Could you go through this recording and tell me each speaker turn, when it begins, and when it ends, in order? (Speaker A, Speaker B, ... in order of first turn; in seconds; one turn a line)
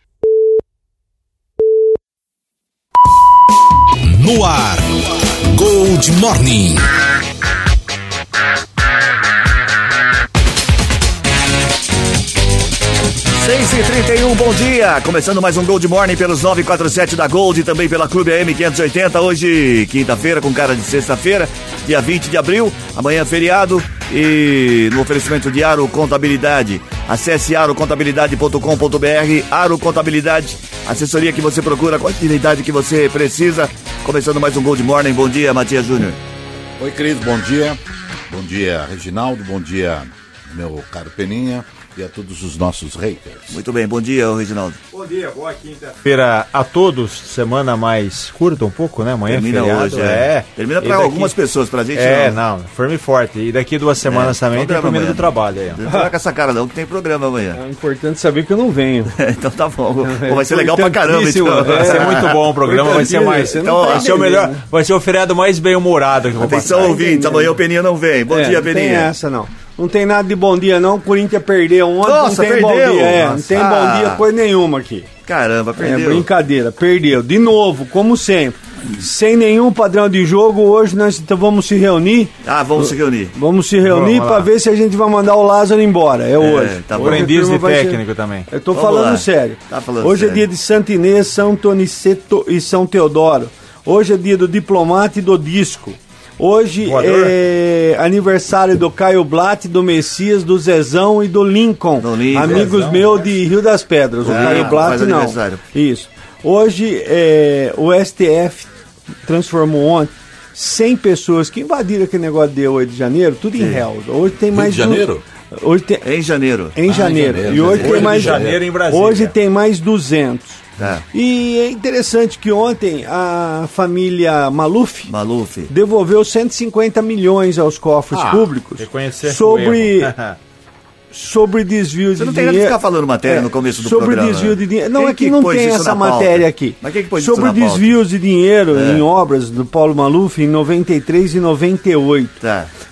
Speaker A: 4.0-4.9
Speaker A: 5.4-6.8
Speaker B: 13.3-36.2
Speaker C: 36.8-43.6
Speaker B: 43.5-44.8
Speaker D: 44.9-51.3
Speaker B: 49.2-52.4
Speaker D: 51.9-55.8
Speaker B: 54.0-57.6
Speaker E: 55.9-56.1
Speaker E: 57.5-59.1
Speaker B: 59.1-62.4
Speaker E: 60.0-64.6
Speaker D: 61.6-67.0
Speaker B: 63.6-64.3
Speaker B: 66.3-69.1
Speaker E: 66.7-67.6
Speaker E: 68.3-75.1
Speaker B: 72.0-74.2
Speaker B: 75.2-76.3
Speaker E: 75.8-108.7
Speaker B: 82.4-83.3
Speaker D: 83.8-84.5
Speaker B: 86.4-87.3
Speaker D: 87.0-88.5
Speaker B: 88.7-90.5
Speaker D: 96.8-97.3
Speaker B: 102.0-103.0
Speaker D: 102.4-103.1
Speaker B: 104.2-105.6
Speaker D: 104.4-104.6
Speaker E: 109.2-116.0
Speaker B: 113.6-113.8
Speaker C: 114.5-115.2
Speaker B: 116.0-116.8
Speaker E: 116.7-125.1
Speaker C: 116.8-118.7
Speaker B: 117.4-118.1
Speaker D: 117.8-119.3
Speaker B: 120.8-121.0
Speaker B: 125.1-125.7
Speaker E: 125.7-130.1
Speaker C: 128.1-128.5
Speaker D: 128.8-130.4
Speaker E: 131.1-142.4
Speaker B: 132.2-137.9
Speaker B: 138.7-139.0
Speaker B: 142.4-142.7